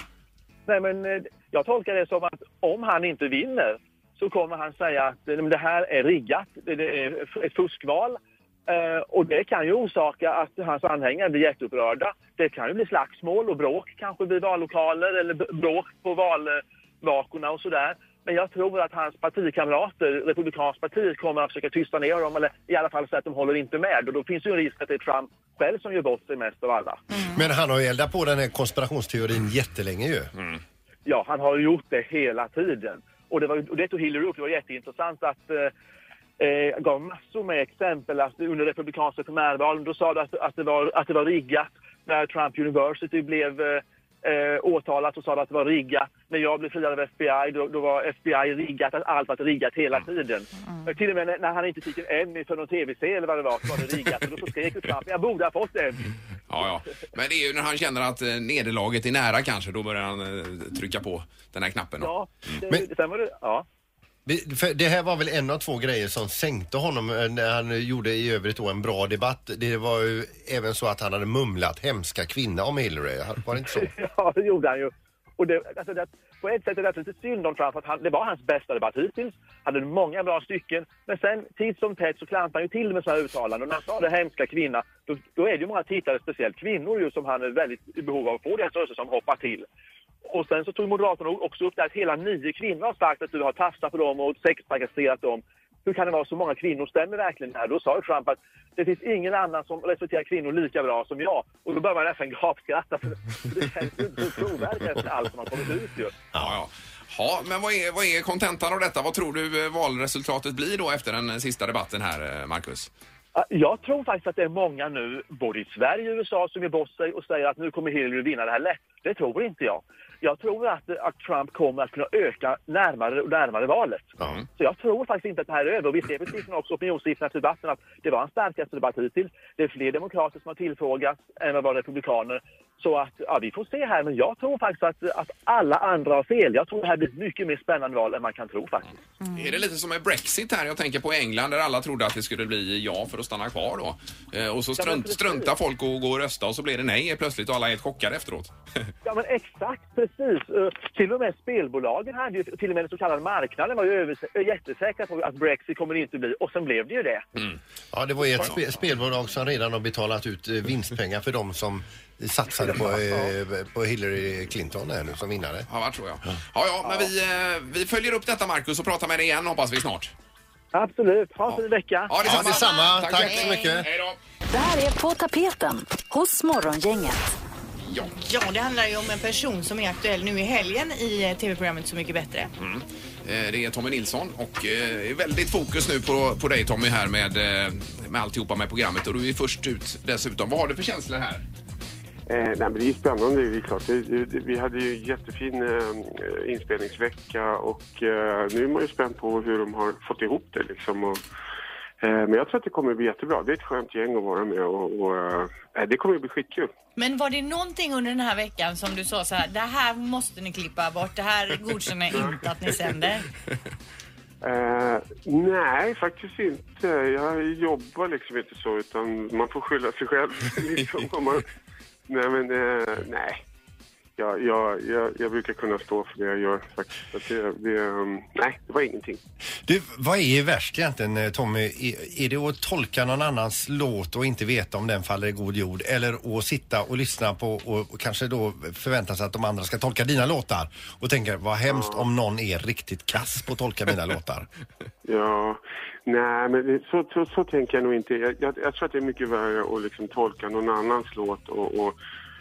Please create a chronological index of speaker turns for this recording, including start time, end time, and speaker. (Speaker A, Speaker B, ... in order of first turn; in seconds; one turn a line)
Speaker A: 0.7-27.0
Speaker B: 27.1-27.4
Speaker C: 27.3-30.3
Speaker A: 31.1-35.7
Speaker A: 36.4-56.1
Speaker D: 56.5-62.1
Speaker A: 62.0-63.6
Speaker C: 64.2-73.9
Speaker A: 73.7-89.7
Speaker A: 90.2-106.1
Speaker D: 106.4-112.9
Speaker A: 113.3-138.9
Speaker D: 139.3-148.5
Speaker A: 144.8-145.5
Speaker A: 149.0-157.2
Speaker C: 157.9-165.7
Speaker A: 162.7-163.3
Speaker D: 165.7-170.1
Speaker A: 170.7-172.2
Speaker D: 171.4-174.2
Speaker C: 172.2-173.9
Speaker B: 172.3-173.8
Speaker E: 174.5-177.3
Speaker D: 177.8-178.1
Speaker B: 178.2-182.5
Speaker D: 182.6-191.4
Speaker F: 192.3-201.2
Speaker F: 202.0-206.7
Speaker B: 207.0-213.3
Speaker F: 214.4-221.5
Speaker F: 222.1-223.4
Speaker F: 224.2-229.2
Speaker C: 229.6-244.5
Speaker F: 241.7-242.0
Speaker F: 245.0-251.9